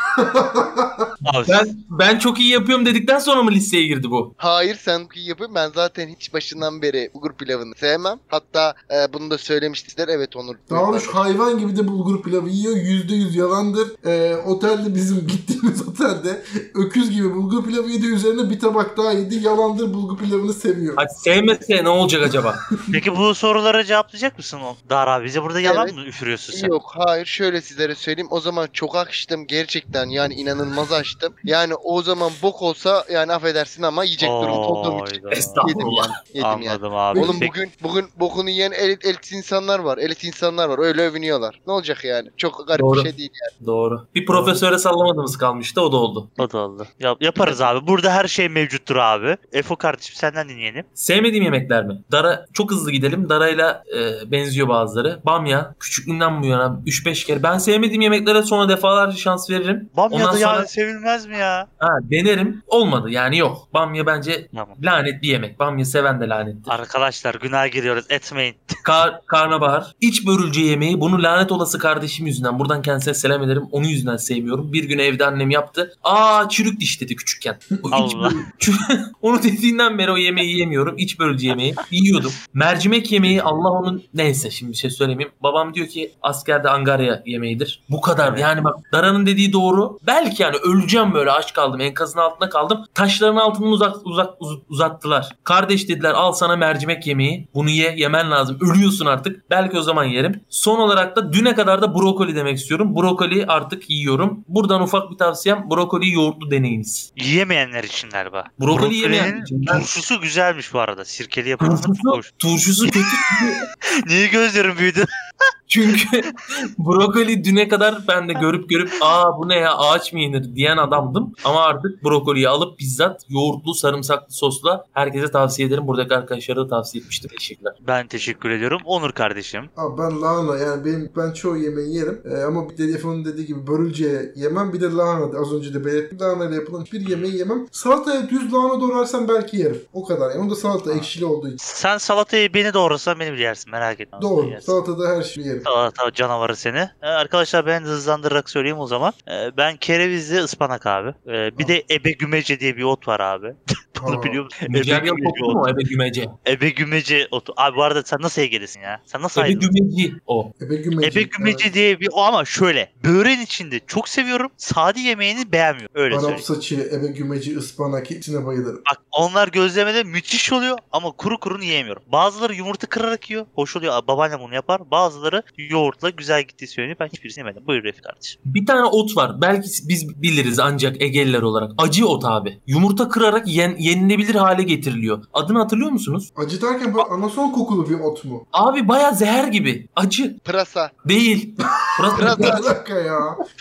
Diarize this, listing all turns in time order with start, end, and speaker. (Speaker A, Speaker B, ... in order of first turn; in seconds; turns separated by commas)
Speaker A: 0.1-1.1, Speaker B: 1.2-1.7, Speaker C: 1.5-4.3, Speaker D: 4.4-11.2, Speaker A: 10.7-21.0, Speaker C: 21.0-22.6, Speaker B: 22.9-26.8, Speaker D: 25.6-25.9, Speaker D: 26.5-43.5, Speaker B: 34.2-35.6, Speaker C: 35.3-36.1, Speaker B: 36.4-37.5, Speaker C: 37.1-37.4, Speaker C: 42.7-46.4, Speaker B: 44.3-44.6, Speaker B: 46.4-50.9, Speaker C: 51.0-60.7, Speaker B: 59.9-61.7, Speaker C: 61.8-66.7, Speaker B: 64.5-64.8, Speaker B: 66.7-68.8, Speaker C: 68.8-107.1, Speaker B: 77.9-78.4, Speaker B: 88.2-88.5, Speaker B: 107.2-112.3, Speaker C: 108.6-109.9, Speaker C: 111.6-113.6, Speaker B: 112.8-113.4, Speaker B: 114.0-115.1, Speaker C: 115.7-127.8, Speaker B: 127.8-129.7, Speaker A: 129.8-141.6, Speaker B: 141.6-144.8, Speaker A: 144.2-145.7, Speaker B: 145.6-155.6, Speaker A: 154.0-154.4, Speaker C: 154.7-156.3, Speaker B: 156.4-159.7, Speaker C: 159.3-160.5, Speaker A: 160.6-161.7, Speaker B: 161.0-166.4, Speaker A: 166.1-168.8, Speaker B: 168.8-178.4, Speaker C: 178.4-186.3, Speaker A: 186.3-188.4, Speaker C: 188.5-190.4, Speaker D: 190.4-190.9, Speaker C: 191.1-192.6, Speaker A: 192.0-193.4, Speaker D: 192.1-192.7